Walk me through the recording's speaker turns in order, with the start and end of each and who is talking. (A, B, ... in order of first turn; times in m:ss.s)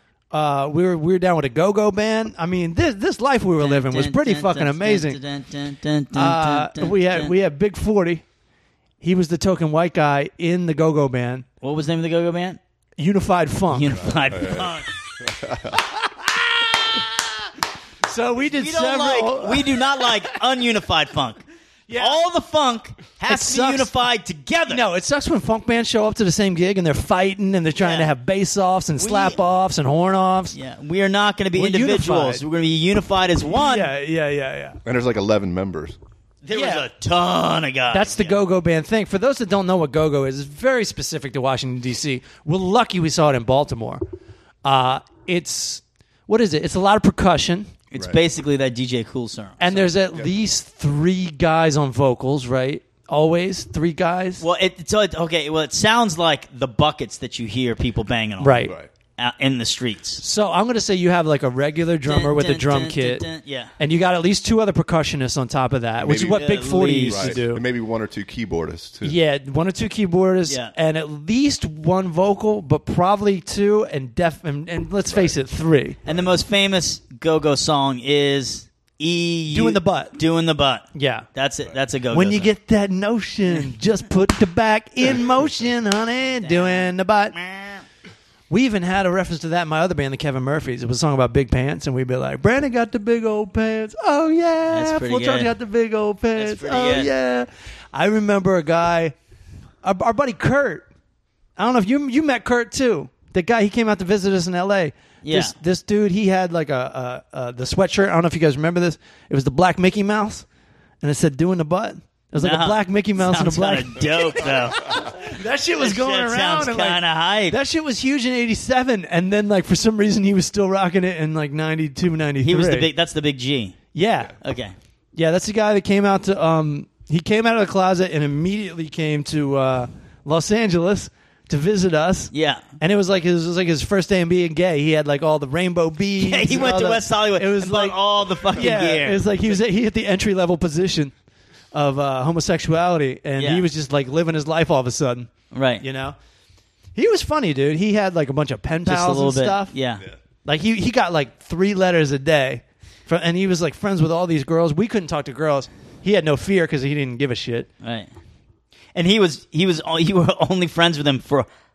0:00.3-0:05.2 A
0:03.6-0:07.3 B
0:06.1-0:08.2 A
0:09.0-0:11.4 A
0:11.6-0:12.6 B
0:13.0-0:13.9 A
0:13.7-0:14.9 B
0:13.9-0:15.8 C
0:16.4-0:17.1 A
0:18.0-0:20.1 A
0:18.4-0:21.4 B
0:21.9-0:22.2 A
0:21.9-0:24.8 B
0:23.3-0:23.9 A
0:24.7-0:30.5 A
0:27.8-0:28.1 B
0:29.0-0:29.4 B
0:30.5-0:33.9 B
0:31.5-0:32.4 A
0:33.4-0:34.8 A
0:34.8-0:36.0 C
0:36.4-0:38.4 B
0:36.5-0:36.8 A
0:37.9-0:44.0 A
0:44.6-0:47.7 A
0:47.9-0:49.6 B
0:49.6-0:54.4 A
0:49.7-0:50.3 C
0:54.4-1:00.2 B
0:58.4-0:58.7 A
1:00.2-1:03.2 A
1:02.0-1:03.7 B
1:03.8-1:07.6 A
1:06.0-1:09.2 C
1:06.3-1:07.4 B
1:09.0-1:16.0 A
1:10.5-1:10.7 B
1:15.1-1:15.3 C
1:16.0-1:16.3 C
1:16.0-1:22.5 B
1:19.5-1:20.2 A
1:20.9-1:21.2 A
1:22.1-1:27.4 A
1:26.4-1:27.8 B
1:28.5-1:39.1 A
1:34.7-1:35.5 B
1:36.4-1:37.1 B
1:39.8-1:40.9 A
1:41.6-1:50.4 A
1:45.2-1:45.5 B
1:51.0-2:02.9 A
1:52.4-1:55.1 B
1:55.8-1:57.6 B
2:02.4-2:03.8 B
2:03.9-2:04.3 A
2:04.4-2:04.7 B
2:05.2-2:21.1 A
2:12.3-2:12.6 B
2:16.2-2:19.6 B
2:21.7-2:26.2 A
2:23.4-2:23.6 B
2:25.5-2:25.8 B
2:26.9-2:29.7 A
2:28.8-2:30.0 B
2:30.4-2:37.7 A
2:37.8-2:38.1 B
2:38.9-2:41.5 B